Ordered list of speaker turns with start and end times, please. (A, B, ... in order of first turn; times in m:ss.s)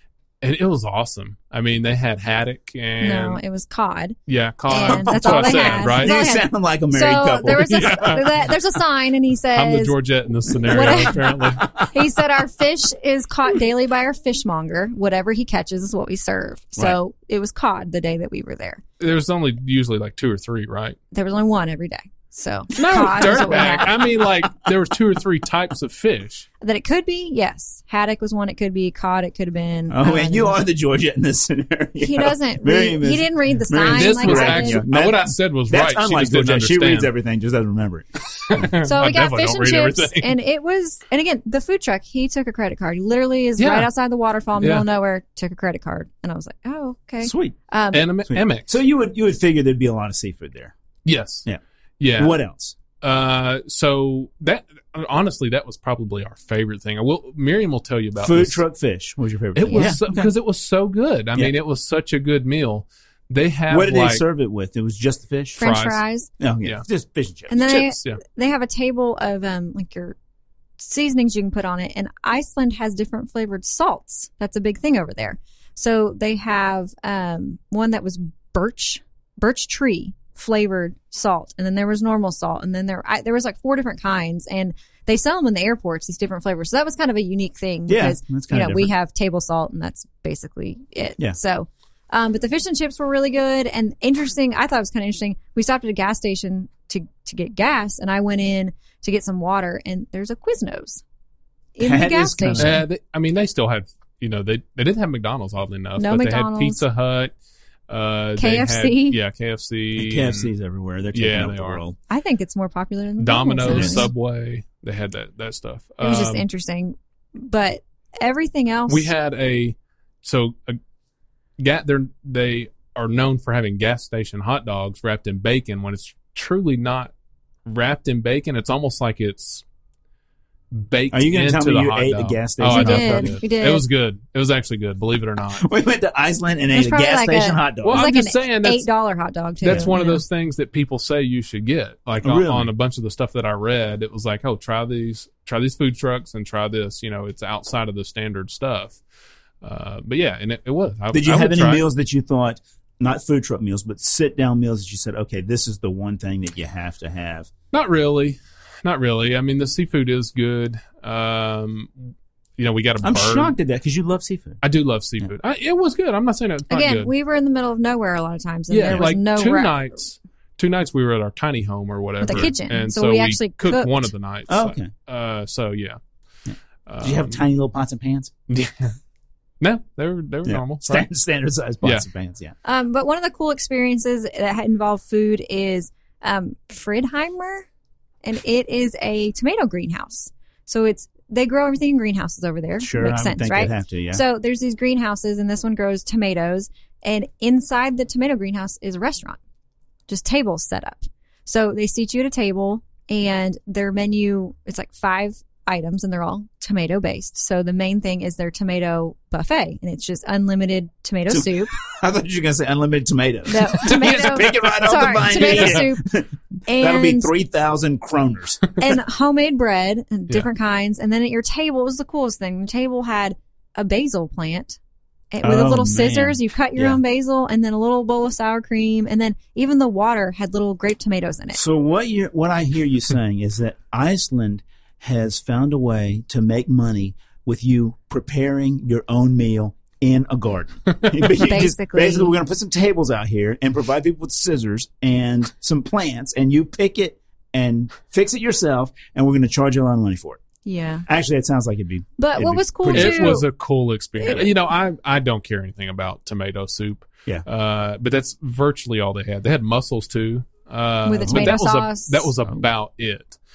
0:00.4-0:03.4 A
0:03.0-0:04.2 B
0:04.3-0:06.2 A
0:04.7-0:09.9 B
0:04.8-0:08.2 C
0:07.5-0:08.5 A
0:09.5-0:11.6 A
0:10.5-0:11.9 C
0:10.7-0:18.8 B
0:19.0-0:21.0 A
0:21.1-0:23.9 B
0:22.8-0:26.5 A
0:22.9-0:24.2 C
0:26.6-0:30.6 B
0:29.9-0:38.6 C
0:32.0-0:34.8 B
0:33.8-0:37.1 A
0:38.3-0:40.3 A
0:38.8-0:48.1 B
0:43.6-0:43.9 A
0:44.6-0:44.8 A
0:47.2-0:47.6 C
0:47.9-0:48.7 A
0:48.2-0:50.7 C
0:51.0-0:51.4 A
0:52.0-0:52.4 A
0:52.1-0:52.8 C
0:53.0-0:58.6 A
0:58.2-1:00.3 C
0:59.6-1:04.2 A
0:59.7-1:00.0 B
1:03.7-1:05.6 C
1:05.6-1:06.3 B
1:05.6-1:06.0 A
1:06.4-1:07.9 C
1:07.5-1:10.2 B
1:07.6-1:08.2 A
1:10.8-1:41.0 B
1:27.9-1:28.9 C
1:41.8-1:42.8 B
1:41.8-1:42.8 C
1:42.6-1:47.3 A
1:46.0-1:46.8 B
1:47.9-1:50.5 A
1:48.4-1:49.2 B
1:50.0-1:52.0 C
1:51.1-1:51.8 A
1:52.1-1:54.1 B
1:53.2-1:56.4 A
1:53.6-1:54.1 C
1:56.0-1:59.1 B
1:58.9-2:00.8 A
2:01.6-2:07.1 A
2:07.6-2:09.6 A
2:10.7-2:15.7 A
2:11.1-2:13.4 C
2:12.6-2:13.8 B
2:15.4-2:18.1 C
2:16.7-2:20.2 B
2:17.8-2:18.9 A
2:19.6-2:29.0 A
2:19.6-2:19.9 C
2:22.2-2:22.7 C
2:29.6-2:31.8 A
2:31.1-2:37.5 C
2:37.7-2:43.5 A
2:43.0-2:44.6 C
2:44.6-2:47.1 A
2:46.7-2:49.8 B
2:48.7-2:56.0 A
2:52.2-2:54.1 B
2:54.5-2:54.9 C
2:56.4-2:58.3 C
2:56.9-2:57.4 A
2:58.5-2:59.0 A
2:59.6-3:01.1 A
3:00.4-3:02.5 C
3:02.6-3:07.6 B
3:08.2-3:19.4 B
3:12.8-3:14.2 C
3:20.1-3:31.7 B
3:31.3-3:38.6 C
3:33.5-3:36.0 B
3:35.3-3:35.8 A
3:36.6-3:37.3 B
3:38.8-3:44.8 B
3:45.3-3:51.6 B
3:45.4-3:47.0 C
3:51.5-4:10.4 C
4:01.4-4:02.4 B
4:10.6-4:11.0 B
4:11.0-4:13.4 C
4:12.2-4:13.4 B
4:12.9-4:23.4 A
4:21.0-4:22.3 B
4:21.2-4:21.6 C